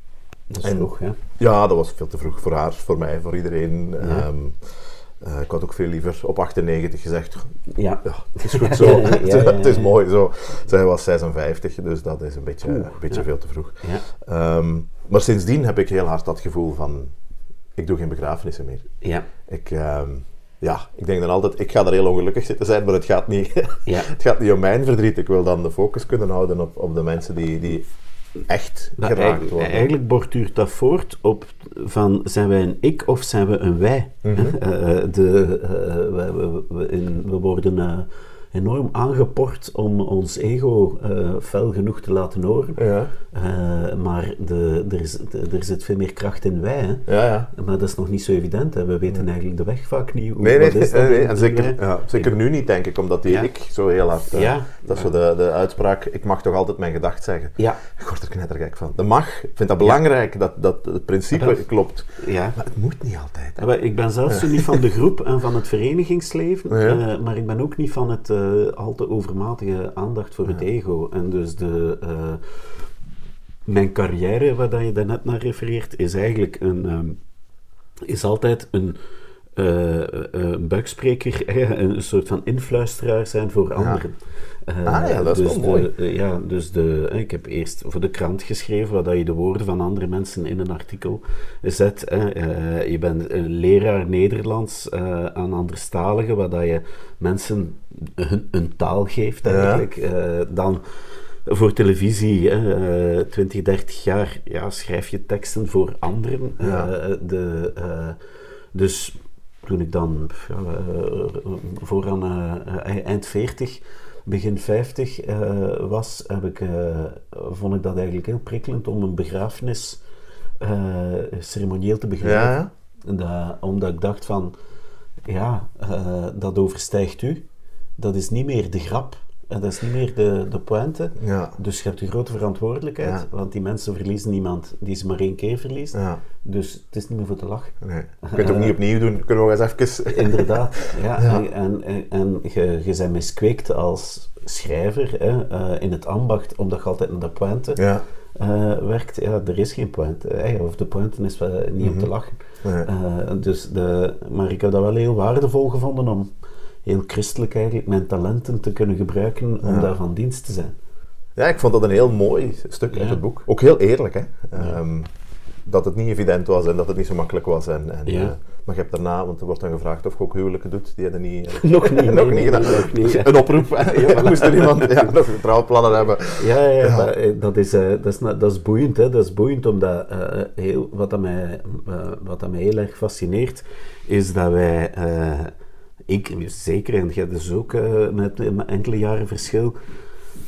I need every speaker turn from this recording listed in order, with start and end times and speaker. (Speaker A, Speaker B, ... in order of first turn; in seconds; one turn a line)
Speaker A: 0.5-1.2
Speaker B: 0.6-17.1
Speaker A: 4.0-4.2
Speaker A: 7.7-9.9
Speaker A: 12.7-13.3
Speaker A: 13.8-14.0
Speaker B: 17.8-18.9
Speaker A: 19.0-19.3
Speaker B: 19.4-27.9
Speaker B: 28.4-29.9
Speaker A: 29.0-52.3
Speaker B: 34.2-34.6
Speaker B: 42.8-43.1
Speaker B: 47.1-47.5
Speaker B: 50.4-63.6
Speaker A: 54.3-55.1
Speaker A: 57.6-57.8
Speaker A: 61.3-61.6
Speaker A: 62.1-62.6
Speaker A: 63.6-72.7
Speaker B: 64.3-64.8
Speaker B: 66.7-67.0
Speaker A: 73.7-77.2
Speaker A: 78.0-79.0
Speaker A: 79.5-108.2
Speaker B: 84.8-85.9
Speaker B: 99.4-99.8
Speaker B: 106.6-106.9
Speaker A: 108.7-120.0
Speaker A: 120.6-124.5
Speaker B: 122.2-122.7
Speaker A: 125.3-127.4
Speaker A: 128.0-138.7
Speaker B: 131.2-131.5
Speaker B: 135.9-136.2
Speaker B: 137.8-140.6
Speaker A: 140.1-147.8
Speaker B: 141.2-141.4
Speaker B: 147.8-148.0
Speaker A: 148.3-156.3
Speaker B: 151.8-152.1
Speaker B: 152.6-152.9
Speaker A: 156.8-160.7
Speaker B: 159.6-159.9
Speaker B: 161.3-165.1
Speaker A: 162.9-163.2
Speaker B: 165.6-177.1
Speaker A: 168.1-168.3
Speaker A: 171.5-175.1
Speaker A: 176.3-185.5
Speaker A: 186.1-189.8